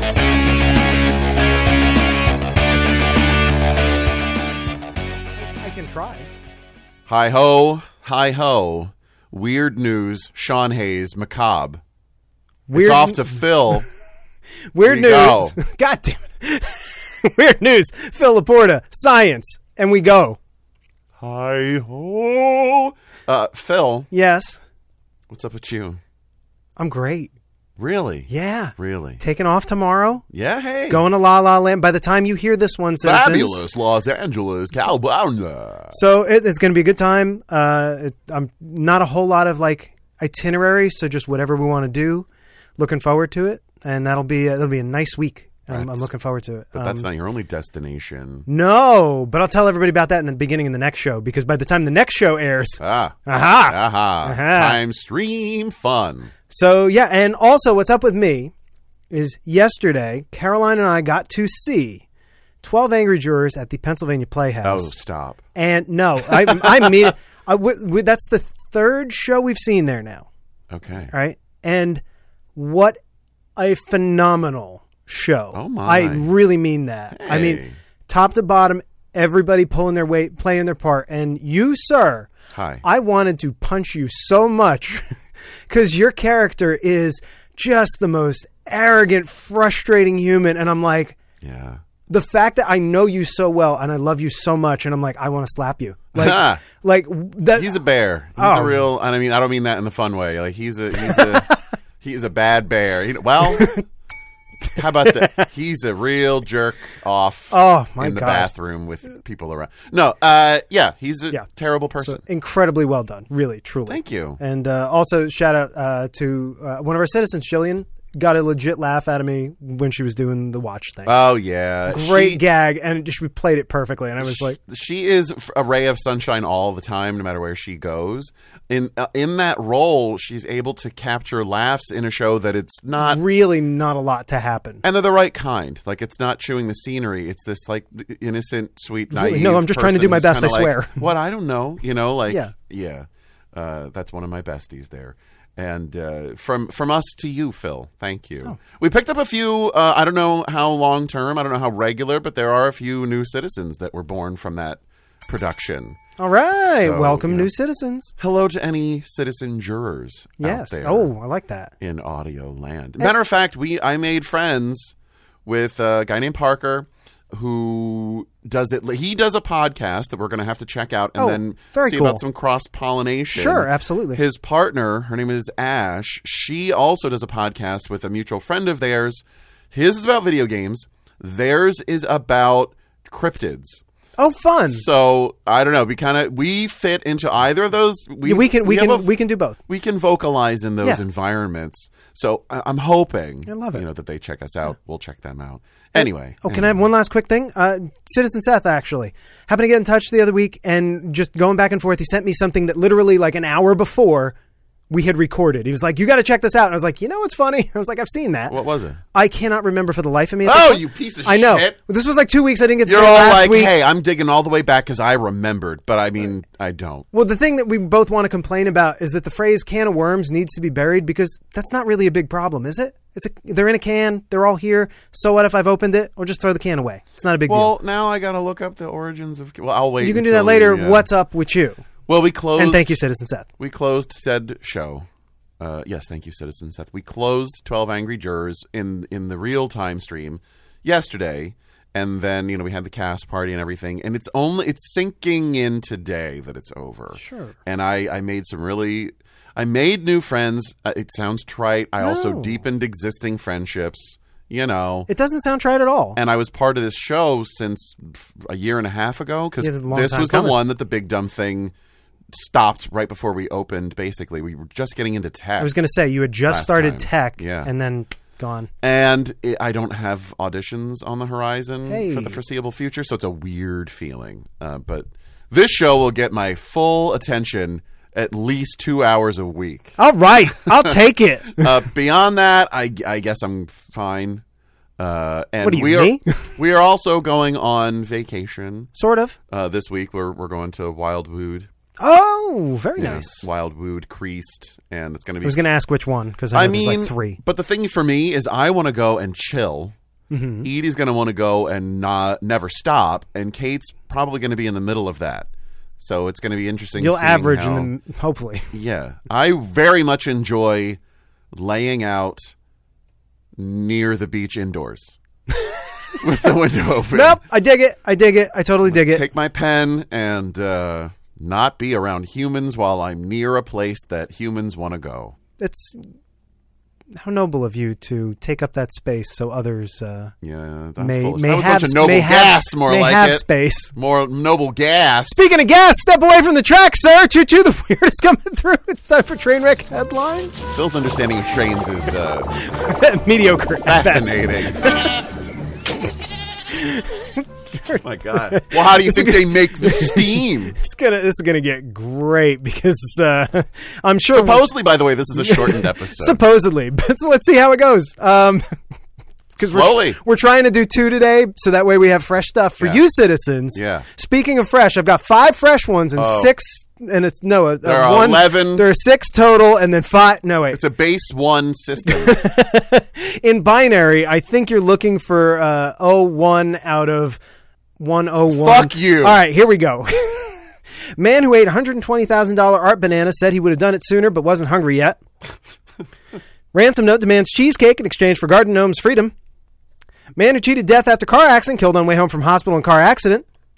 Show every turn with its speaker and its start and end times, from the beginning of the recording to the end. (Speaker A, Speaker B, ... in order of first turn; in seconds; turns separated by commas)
Speaker A: 5.4-6.3, Speaker B: 7.1-11.8, Speaker A: 12.7-13.8, Speaker B: 12.7-13.9, Speaker A: 14.7-20.4, Speaker B: 14.8-15.6, Speaker B: 21.2-24.1, Speaker A: 24.1-24.6, Speaker B: 25.3-26.0, Speaker A: 26.8-27.3, Speaker B: 27.8-29.2, Speaker A: 28.3-30.2, Speaker B: 30.3-31.0, Speaker A: 30.9-33.6, Speaker B: 33.0-36.0, Speaker A: 35.9-42.3, Speaker A: 42.8-47.0, Speaker B: 45.7-46.1, Speaker B: 46.7-48.5, Speaker A: 48.5-54.8, Speaker B: 52.8-56.3, Speaker A: 56.5-58.5, Speaker A: 59.1-62.0, Speaker A: 62.6-65.0, Speaker B: 64.6-65.4, Speaker A: 65.5-70.3, Speaker B: 70.7-71.1, Speaker A: 71.1-72.0, Speaker A: 72.6-73.0, Speaker A: 73.6-82.3, Speaker B: 75.5-76.3, Speaker B: 77.1-77.8, Speaker B: 82.5-82.8, Speaker A: 82.8-85.1, Speaker A: 85.7-91.2, Speaker B: 91.4-91.8, Speaker A: 92.1-97.8, Speaker B: 96.2-96.6, Speaker B: 97.5-103.8, Speaker A: 98.4-98.8, Speaker A: 101.0-101.5, Speaker A: 103.4-103.8, Speaker B: 104.7-112.2, Speaker A: 105.0-105.4, Speaker A: 107.5-108.5, Speaker A: 112.0-121.1, Speaker B: 113.9-114.4, Speaker B: 121.1-122.4, Speaker A: 121.9-124.6, Speaker B: 124.2-133.2, Speaker A: 133.0-134.8, Speaker B: 134.8-156.0, Speaker A: 139.1-141.0, Speaker A: 156.2-158.1, Speaker B: 156.8-157.5, Speaker B: 158.2-161.1, Speaker A: 160.4-161.7, Speaker B: 161.8-164.9, Speaker B: 165.5-183.8, Speaker A: 171.2-172.2, Speaker A: 173.3-174.2, Speaker A: 184.2-184.8, Speaker B: 184.7-189.1, Speaker A: 188.2-189.6, Speaker B: 189.7-196.8, Speaker A: 193.5-193.8, Speaker A: 195.9-204.3, Speaker A: 204.9-208.6, Speaker B: 208.5-209.0, Speaker A: 209.1-213.7, Speaker B: 210.4-211.8, Speaker B: 212.8-217.1, Speaker A: 217.1-227.7, Speaker B: 227.5-231.1, Speaker A: 230.0-231.8, Speaker B: 232.1-233.0, Speaker A: 232.6-233.5, Speaker B: 233.6-235.1, Speaker B: 235.6-255.1, Speaker A: 247.2-247.5, Speaker A: 252.0-252.6, Speaker A: 255.1-256.2, Speaker B: 256.1-261.7, Speaker A: 259.6-260.6, Speaker B: 262.3-265.8, Speaker A: 265.6-268.7, Speaker B: 266.5-267.7, Speaker B: 268.8-280.0, Speaker A: 271.9-272.4, Speaker A: 280.0-281.8, Speaker B: 280.6-284.4, Speaker B: 285.0-288.9, Speaker A: 285.6-286.2, Speaker A: 288.9-289.4, Speaker B: 289.5-291.7, Speaker A: 292.0-293.5, Speaker B: 293.0-295.6, Speaker A: 295.4-297.4, Speaker B: 296.5-299.9, Speaker A: 300.3-300.7, Speaker B: 300.6-307.9, Speaker A: 307.0-308.7, Speaker B: 308.7-311.0, Speaker B: 311.5-312.5, Speaker B: 313.6-315.2, Speaker B: 316.1-317.4, Speaker A: 317.1-319.2, Speaker B: 318.9-325.4, Speaker A: 325.6-326.0, Speaker A: 327.1-330.3, Speaker B: 330.4-335.4, Speaker A: 331.0-333.9, Speaker A: 335.3-340.7, Speaker B: 340.7-342.5, Speaker A: 342.6-345.1, Speaker B: 343.9-345.1, Speaker A: 346.7-354.6, Speaker B: 347.9-350.8, Speaker B: 354.3-356.4, Speaker A: 355.4-358.6, Speaker A: 359.6-370.8, Speaker B: 359.6-360.2, Speaker B: 363.7-364.1, Speaker B: 366.2-366.5, Speaker B: 367.8-368.9, Speaker B: 370.7-372.4, Speaker A: 372.1-377.4, Speaker A: 378.0-380.6, Speaker B: 378.5-379.4, Speaker A: 381.2-385.2, Speaker A: 386.7-389.3, Speaker A: 390.4-393.5